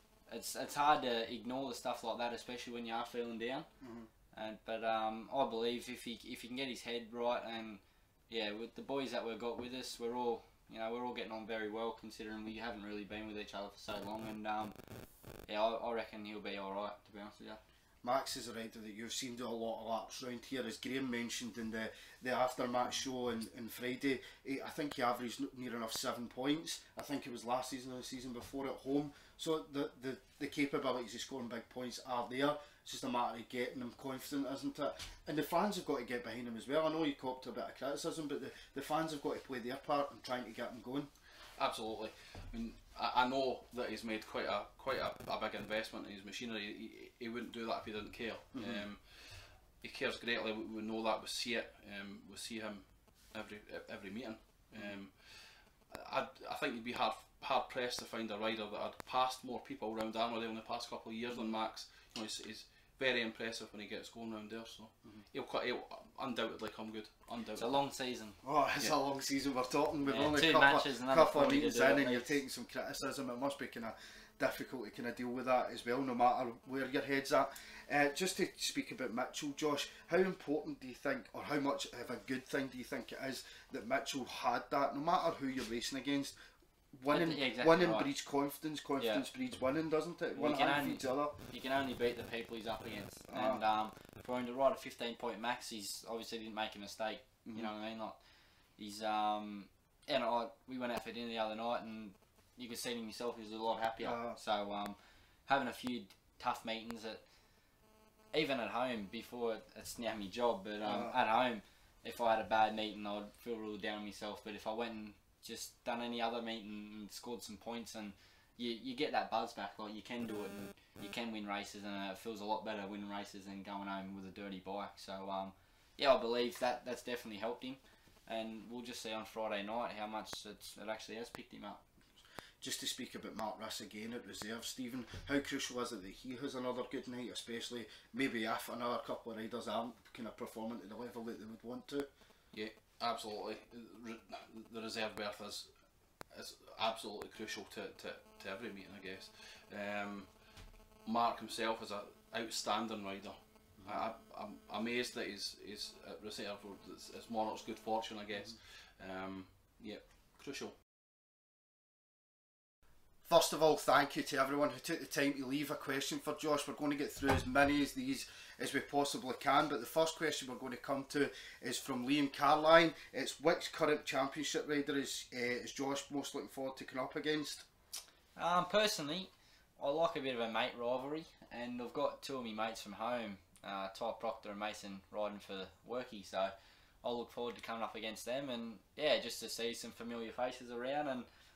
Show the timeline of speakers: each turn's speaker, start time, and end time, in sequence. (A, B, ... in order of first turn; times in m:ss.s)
0:00.3-0:03.7 A
0:03.8-0:04.1 B
0:04.3-0:14.8 A
0:15.5-0:17.6 A
0:18.0-0:41.1 B
0:41.6-1:07.8 C
0:48.6-0:48.8 B
1:07.6-1:08.4 A
1:08.4-1:26.4 B
1:10.0-1:12.4 A
1:27.0-1:31.4 B
1:27.1-1:28.1 A
1:29.0-1:29.2 A
1:30.4-1:38.2 A
1:33.3-1:33.6 B
1:37.4-1:37.7 B
1:38.8-1:45.0 A
1:44.0-1:44.4 B
1:45.5-1:47.2 A
1:48.3-2:11.8 A
1:50.8-1:51.2 B
2:12.6-2:22.1 B
2:22.5-2:25.7 C
2:26.3-2:30.4 C
2:31.0-2:40.8 C
2:43.2-2:57.7 B
2:58.4-3:11.3 A